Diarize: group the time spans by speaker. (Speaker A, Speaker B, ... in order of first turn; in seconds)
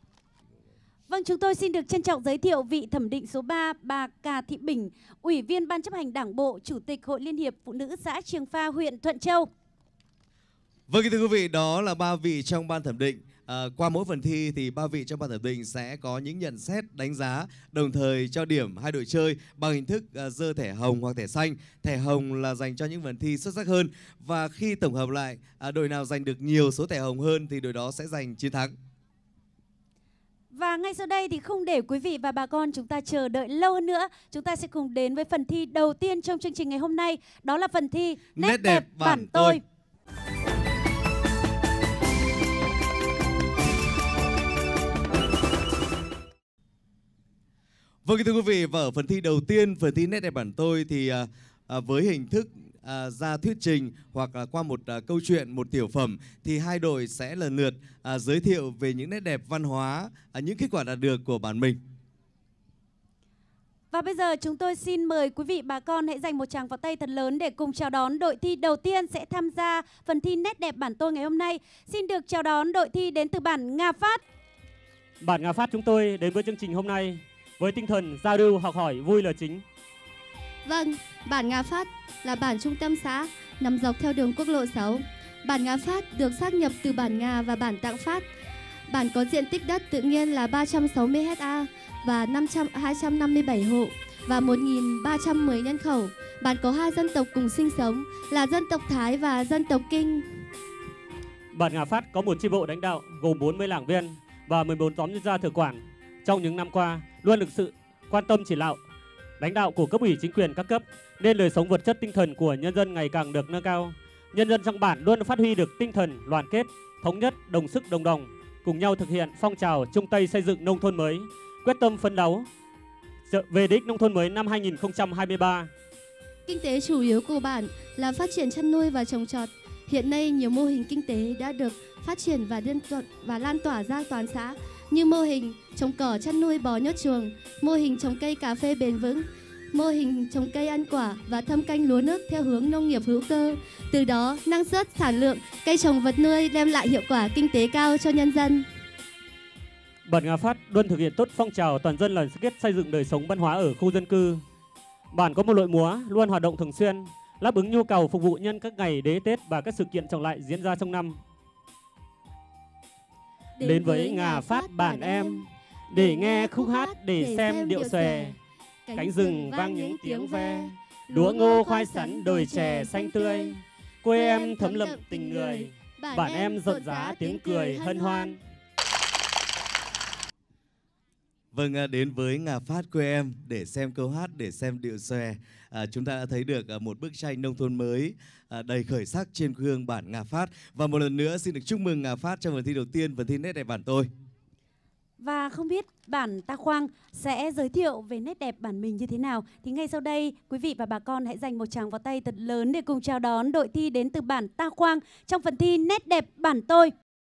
Speaker A: 1.1-9.5, 30.5-39.6, 63.9-74.2, 195.2-206.9
Speaker B: 10.9-28.8, 38.4-39.6, 48.0-61.8, 181.5-194.1
Speaker C: 75.2-79.6, 101.5-108.8, 109.4-122.5, 123.3-125.7, 150.1-154.4, 155.1-161.2, 163.6-168.3, 168.9-178.4
Speaker D: 80.7-88.3, 88.9-100.4, 126.5-148.7, 163.6-173.6, 174.1-178.4